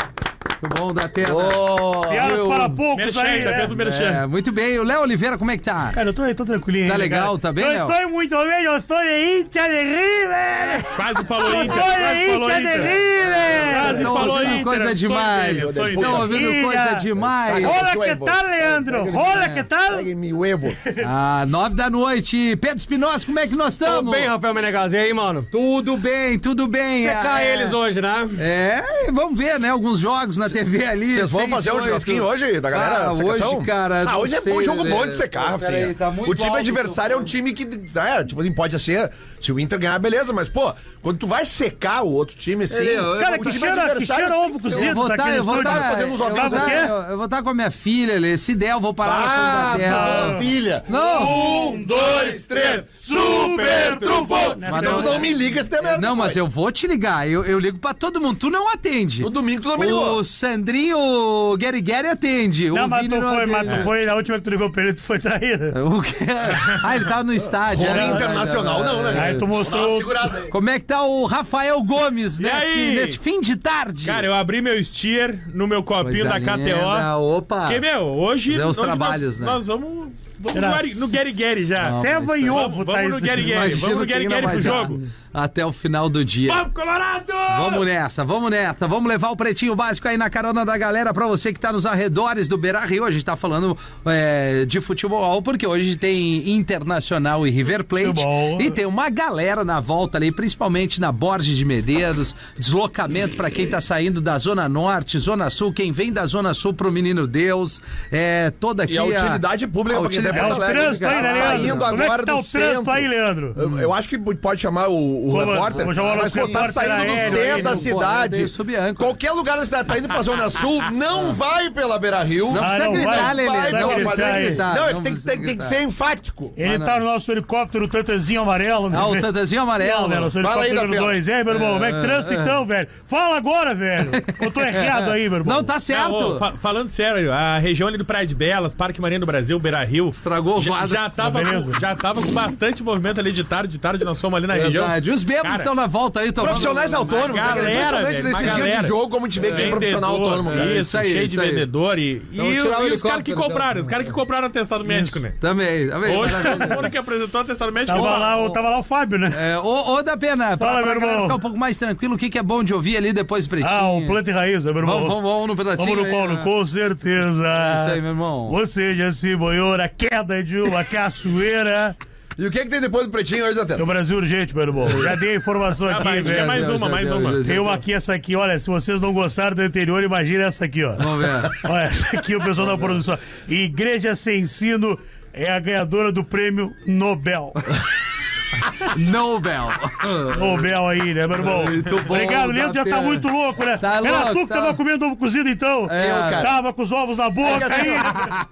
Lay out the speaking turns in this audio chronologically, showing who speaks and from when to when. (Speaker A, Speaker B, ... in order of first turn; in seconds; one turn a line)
Speaker A: 0.6-2.8
Speaker B: 1.2-2.4
Speaker C: 2.1-3.7
Speaker D: 2.9-4.2
Speaker A: 3.7-6.0
Speaker C: 5.9-14.6
Speaker A: 6.8-8.0
Speaker D: 10.9-16.3
Speaker A: 13.1-17.8
Speaker B: 15.5-16.4
Speaker C: 16.1-20.1
Speaker B: 17.2-19.3
Speaker A: 19.1-19.6
Speaker B: 19.8-20.8
Speaker A: 21.0-24.3
Speaker E: 23.8-25.5
Speaker A: 25.5-27.8
Speaker E: 27.0-28.4
Speaker A: 28.4-37.3
Speaker B: 31.1-46.9
Speaker A: 42.7-43.7
Speaker C: 43.1-46.9
Speaker A: 44.7-51.5
Speaker B: 49.0-56.4
Speaker C: 49.8-55.3
Speaker D: 52.0-52.9
Speaker A: 54.6-55.2
Speaker A: 55.9-63.9
Speaker B: 59.2-60.2
Speaker C: 62.7-65.8
Speaker A: 65.7-69.4
Speaker B: 67.7-70.5
Speaker C: 67.8-68.1
Speaker C: 69.1-70.1
Speaker A: 70.5-74.3
Speaker D: 72.4-73.2
Speaker D: 74.0-77.1
Speaker A: 76.0-77.8
Speaker D: 77.6-82.0
Speaker A: 78.5-79.6
Speaker C: 80.5-83.7
Speaker A: 81.8-82.6
Speaker D: 82.5-85.0
Speaker A: 83.4-86.7
Speaker C: 84.7-85.0
Speaker D: 86.5-87.8
Speaker A: 87.5-112.0
Speaker C: 97.9-98.8
Speaker B: 108.9-126.6
Speaker C: 110.3-113.6
Speaker A: 113.6-113.9
Speaker C: 115.3-117.9
Speaker A: 115.7-119.2
Speaker A: 122.5-125.8
Speaker C: 122.6-124.6
Speaker C: 126.6-135.7
Speaker A: 126.6-127.0
Speaker A: 128.9-130.3
Speaker B: 130.4-131.2
Speaker A: 131.5-132.6
Speaker A: 134.1-136.4
Speaker D: 135.9-145.7
Speaker A: 140.1-141.1
Speaker C: 141.2-141.8
Speaker A: 144.5-148.6
Speaker B: 146.4-150.8
Speaker D: 146.4-155.4
Speaker A: 149.4-149.8
Speaker A: 150.4-151.7
Speaker A: 152.3-154.0
Speaker C: 154.8-155.2
Speaker A: 155.4-156.9
Speaker D: 156.0-158.3
Speaker C: 156.2-156.8
Speaker C: 157.9-159.4
Speaker A: 157.9-158.6
Speaker A: 159.3-164.2
Speaker C: 160.6-161.4
Speaker C: 163.6-165.2
Speaker A: 164.8-166.5
Speaker C: 165.7-172.0
Speaker A: 167.5-168.6
Speaker B: 172.4-173.9
Speaker C: 173.8-176.8
Speaker A: 174.9-175.2
Speaker D: 175.9-177.7
Speaker A: 176.2-177.8
Speaker C: 177.4-187.6
Speaker A: 181.0-181.7
Speaker A: 188.7-190.6
Speaker C: 190.3-198.2
Speaker A: 191.3-193.2
Speaker A: 193.8-194.8
Speaker A: 195.9-196.5
Speaker B: 195.9-196.5
Speaker B: 197.4-198.1